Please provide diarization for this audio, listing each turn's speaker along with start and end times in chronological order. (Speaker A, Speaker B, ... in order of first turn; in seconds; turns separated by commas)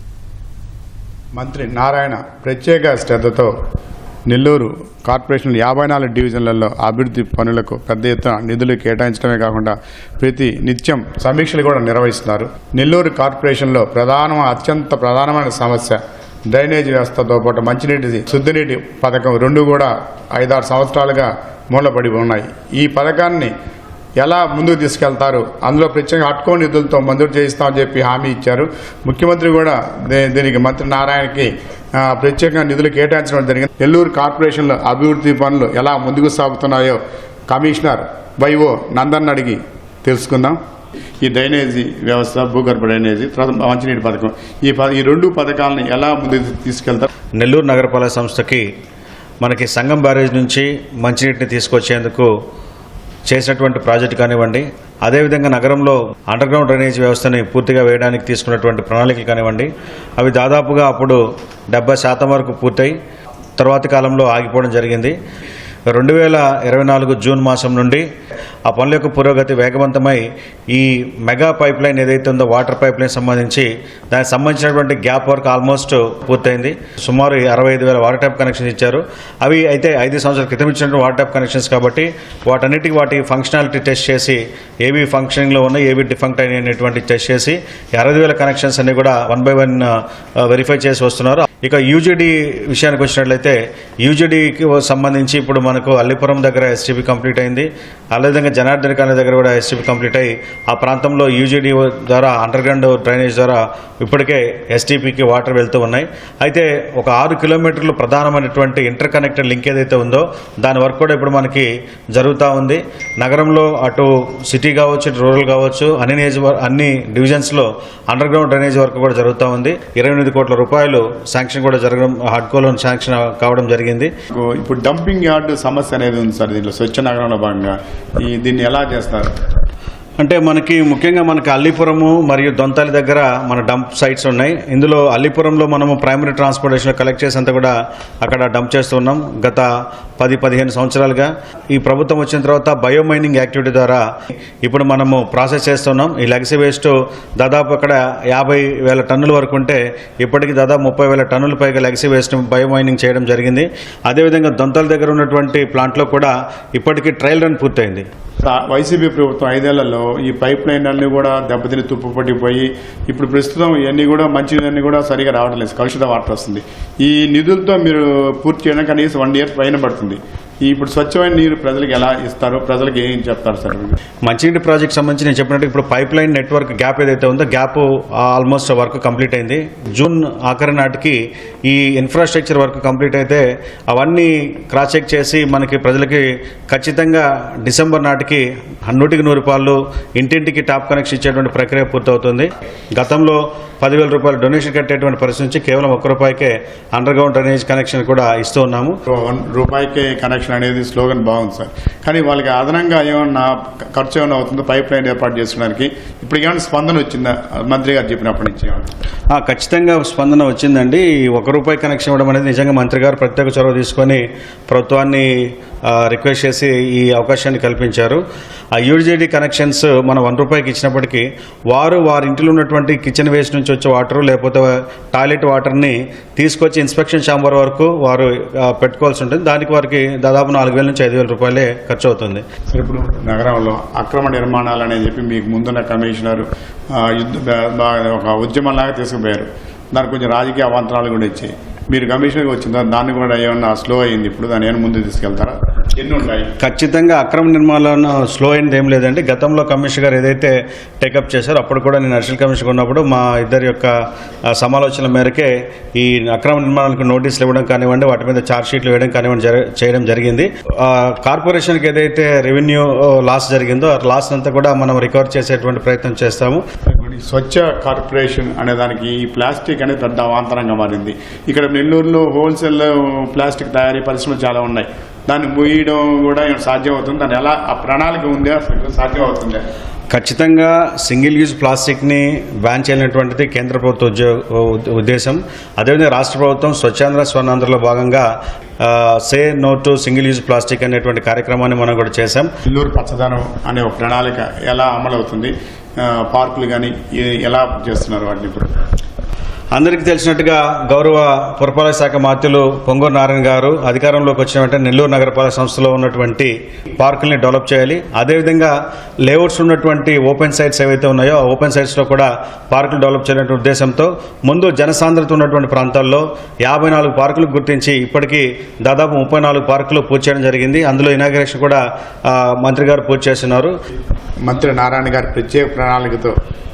Speaker A: 1.4-3.5, Speaker A: 4.3-23.5, Speaker A: 24.2-40.6, Speaker A: 41.2-47.1, Speaker B: 47.4-48.6, Speaker B: 49.4-52.3, Speaker B: 53.3-61.2, Speaker B: 61.7-62.9, Speaker B: 63.6-65.2, Speaker B: 65.9-68.0, Speaker B: 68.7-89.9, Speaker B: 90.4-124.1, Speaker A: 124.3-129.3, Speaker B: 130.2-139.7, Speaker B: 140.2-144.0, Speaker B: 144.6-158.1, Speaker A: 158.4-174.0, Speaker B: 174.3-199.0, Speaker A: 199.1-208.9, Speaker B: 209.3-215.3, Speaker B: 215.9-218.2, Speaker B: 218.8-232.4, Speaker A: 232.7-246.5, Speaker B: 246.6-253.9, Speaker B: 254.5-266.6, Speaker A: 266.9-279.6, Speaker B: 280.1-288.3, Speaker B: 288.8-292.5, Speaker A: 292.6-298.7, Speaker B: 299.7-308.7, Speaker B: 309.3-323.7, Speaker A: 324.4-326.4